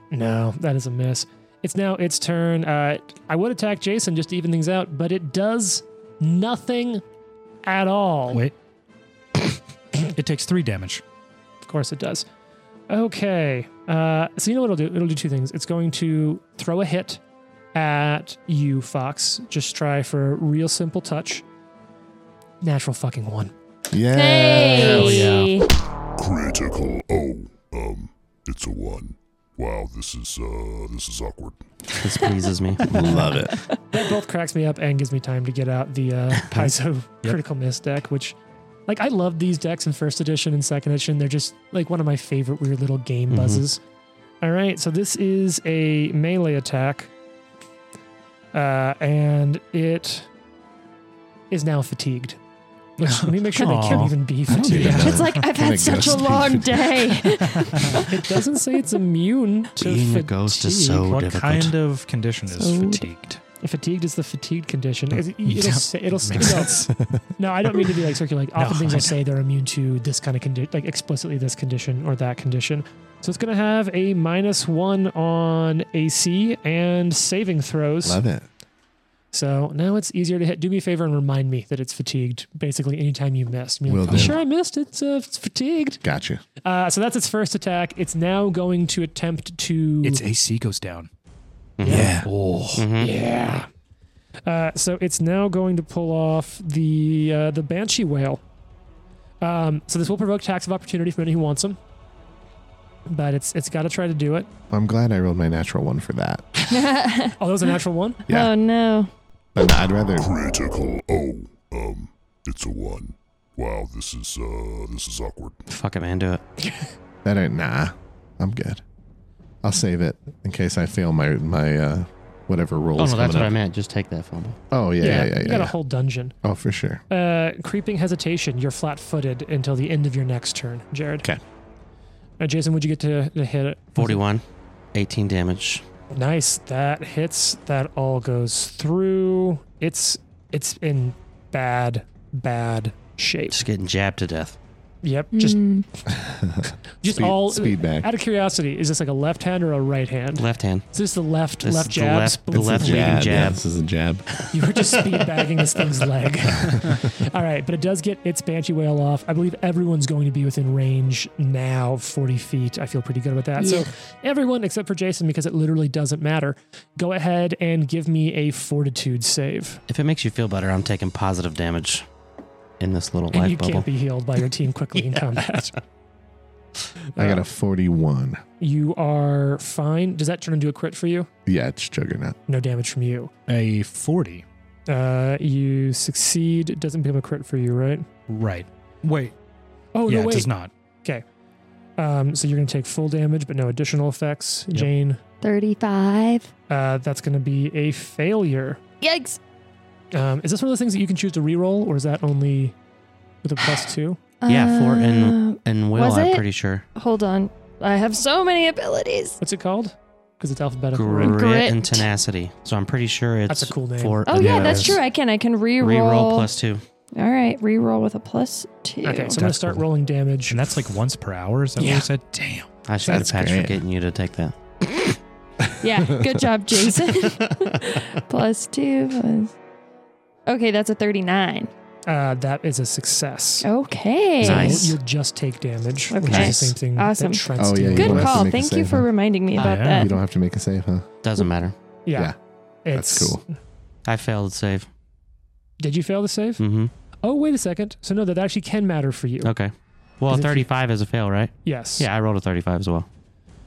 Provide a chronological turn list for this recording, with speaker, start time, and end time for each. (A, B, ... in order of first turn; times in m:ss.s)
0:00.1-0:07.0 A
0:07.6-0:08.4 A
0:09.9-0:11.0 B
0:11.6-0:12.2 A
0:12.9-0:17.2 A
0:17.7-0:21.4 A
0:22.6-0:23.5 A
0:23.9-0:25.4 C
0:24.1-0:25.7 D
0:24.9-0:25.5 B
0:26.2-0:31.6 E
0:31.9-0:33.2 F
0:32.8-0:33.6 C
0:32.9-0:33.2 B
0:33.5-0:33.7 D
0:33.9-0:43.8 A
0:36.4-0:36.7 F
0:43.3-0:43.6 F
0:44.4-0:47.1 A
0:48.5-0:50.3 A
0:51.5-0:52.4 A
0:53.0-0:55.2 A
0:53.0-0:55.4 B
0:54.5-0:57.1 C
0:54.9-0:58.3 D
0:57.5-0:58.0 B
0:58.0-1:01.0 A
0:59.8-1:01.8 F
1:00.8-1:03.4 B
1:02.5-1:03.1 D
1:03.6-1:18.2 A
1:05.1-1:06.9 B
1:06.9-1:07.3 C
1:08.6-1:09.2 B
1:18.0-1:18.5 C
1:19.3-1:26.0 A
1:23.9-1:24.4 C
1:24.1-1:24.4 B
1:26.0-1:26.4 C
1:26.6-1:30.2 A
1:30.0-1:31.1 B
1:31.8-1:33.1 F
1:31.8-1:32.1 A
1:31.8-1:32.9 B
1:31.9-1:32.3 C
1:33.0-1:33.7 A
1:34.4-1:38.4 A
1:39.4-1:41.8 A
1:43.1-1:44.5 A
1:44.7-1:46.4 C
1:46.7-1:47.4 D
1:47.4-1:48.2 A
1:48.3-1:48.5 C
1:48.3-1:49.1 D
1:49.5-1:50.3 C
1:50.2-1:55.6 E
1:55.7-1:56.4 F
1:57.2-1:58.8 C
1:59.6-2:03.6 C
2:03.0-2:04.6 F
2:04.7-2:05.7 C
2:05.0-2:06.4 A
2:06.4-2:07.0 C
2:07.1-2:11.3 A
2:12.4-2:14.2 A
2:14.0-2:14.4 F
2:14.9-2:15.8 F
2:16.1-2:23.6 A
2:23.5-2:24.6 F
2:25.0-2:25.6 A
2:25.3-2:25.8 D
2:26.1-2:28.1 C
2:27.0-2:33.2 A
2:30.4-2:30.8 F
2:31.6-2:33.6 F
2:32.6-2:34.3 C
2:34.5-2:49.8 A
2:43.6-2:43.8 D
2:49.9-2:52.0 F
2:52.8-2:53.9 F
2:53.3-2:55.8 A
2:57.2-2:57.4 A
2:57.2-2:58.4 C
2:58.6-3:01.3 A
3:01.4-3:02.4 C
3:02.5-3:03.3 A
3:03.5-3:04.4 B
3:04.9-3:08.0 A
3:08.3-3:09.3 B
3:09.9-3:10.5 A
3:10.1-3:10.7 B
3:12.0-3:15.2 A
3:15.4-3:16.5 D
3:16.7-3:18.8 A
3:19.0-3:19.4 D
3:20.1-3:22.8 A
3:23.4-3:24.2 A
3:24.4-3:26.4 D
3:24.5-3:26.8 F
3:26.9-3:29.4 D
3:29.4-3:31.4 A
3:30.9-3:35.0 F
3:31.2-3:32.1 D
3:33.5-3:35.0 A
3:34.2-3:36.5 D
3:35.8-3:36.8 F
3:37.1-3:39.4 D
3:39.0-3:40.8 A
3:39.4-3:39.8 B
3:40.5-3:42.7 B
3:41.8-3:42.1 A
3:42.9-3:45.2 F
3:43.0-3:43.8 C
3:45.7-3:46.5 C
3:45.8-3:49.5 D
3:50.5-3:51.7 D
3:52.1-3:53.7 A
3:53.6-3:54.9 D
3:54.4-3:58.4 A
3:54.4-3:54.9 F
3:56.1-4:00.1 D
3:57.6-3:59.1 C
3:59.6-4:00.1 B
3:59.6-4:00.1 F
3:59.8-4:01.0 C
4:01.2-4:01.8 F
4:02.0-4:02.3 A
4:02.8-4:03.5 A
4:02.9-4:03.4 C
4:04.0-4:04.9 F
4:05.8-4:06.6 A
4:06.6-4:06.9 F
4:07.2-4:09.5 A
4:09.4-4:13.1 F
4:10.3-4:10.6 A
4:11.6-4:12.1 A